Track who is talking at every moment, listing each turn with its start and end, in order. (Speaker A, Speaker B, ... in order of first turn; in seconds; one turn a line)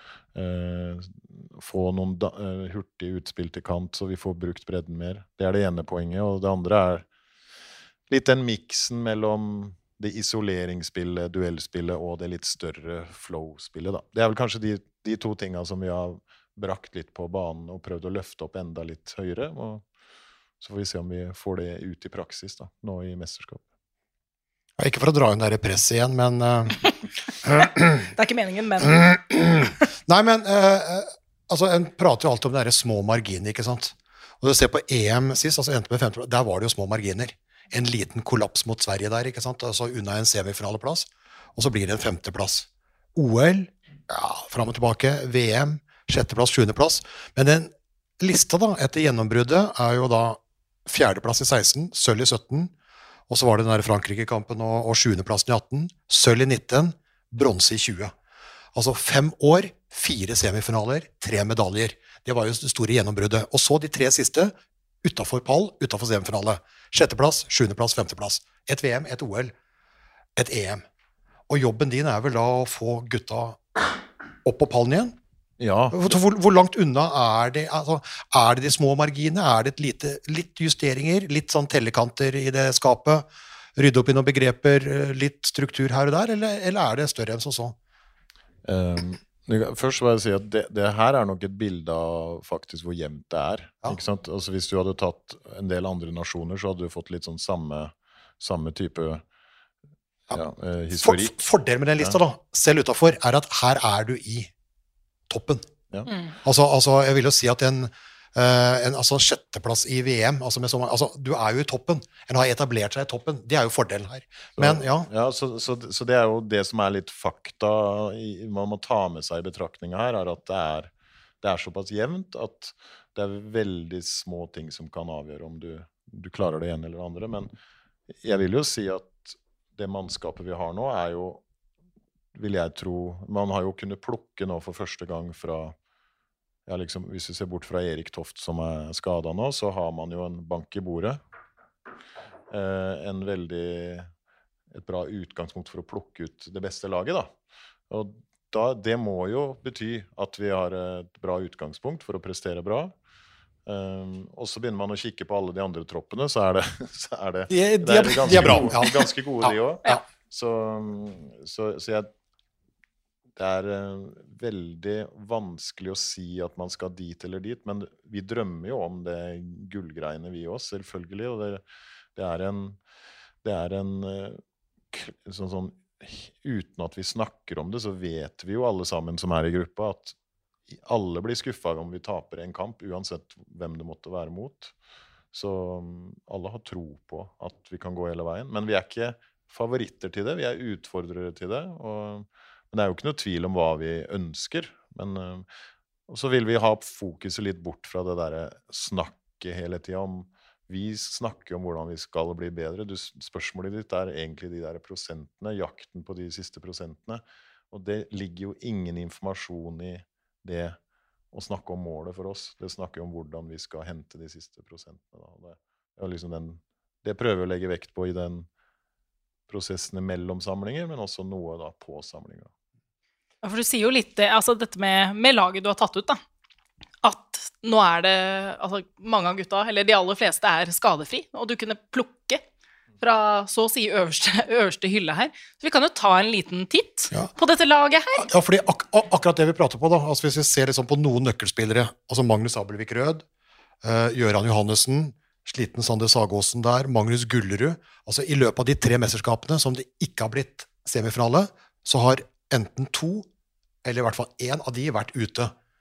Speaker A: 0.3-7.1
Speaker A: 8.1-19.8
Speaker A: 20.6-23.6
Speaker B: 24.8-26.8
Speaker B: 27.4-28.0
Speaker C: 28.1-29.1
Speaker B: 28.8-52.7
Speaker B: 53.3-58.1
Speaker B: 58.8-69.5
Speaker B: 70.4-70.8
Speaker B: 71.5-73.8
Speaker B: 74.4-75.2
Speaker A: 75.6-76.2
Speaker B: 75.9-87.8
Speaker A: 88.7-99.2
Speaker A: 100.3-101.3
Speaker B: 101.0-104.5
Speaker B: 105.3-105.7
Speaker B: 106.4-115.1
Speaker A: 114.6-120.9
Speaker A: 121.4-127.5
Speaker A: 128.2-131.4
Speaker A: 132.3-135.8
Speaker A: 136.7-141.2
Speaker A: 142.5-144.1
Speaker A: 144.7-147.3
Speaker A: 147.9-152.9
Speaker A: 153.7-162.1
Speaker B: 157.5-158.9
Speaker B: 159.4-160.0
Speaker A: 163.4-171.6
Speaker A: 172.2-172.8
Speaker A: 173.4-174.4
Speaker A: 174.9-180.2
Speaker A: 180.7-184.7
Speaker A: 185.3-195.5
Speaker A: 196.1-210.8
Speaker A: 211.3-218.5
Speaker A: 219.5-222.5
Speaker C: 223.4-226.2
Speaker C: 227.0-232.4
Speaker C: 233.0-238.3
Speaker B: 238.2-243.2
Speaker B: 243.8-253.3
Speaker B: 253.8-255.5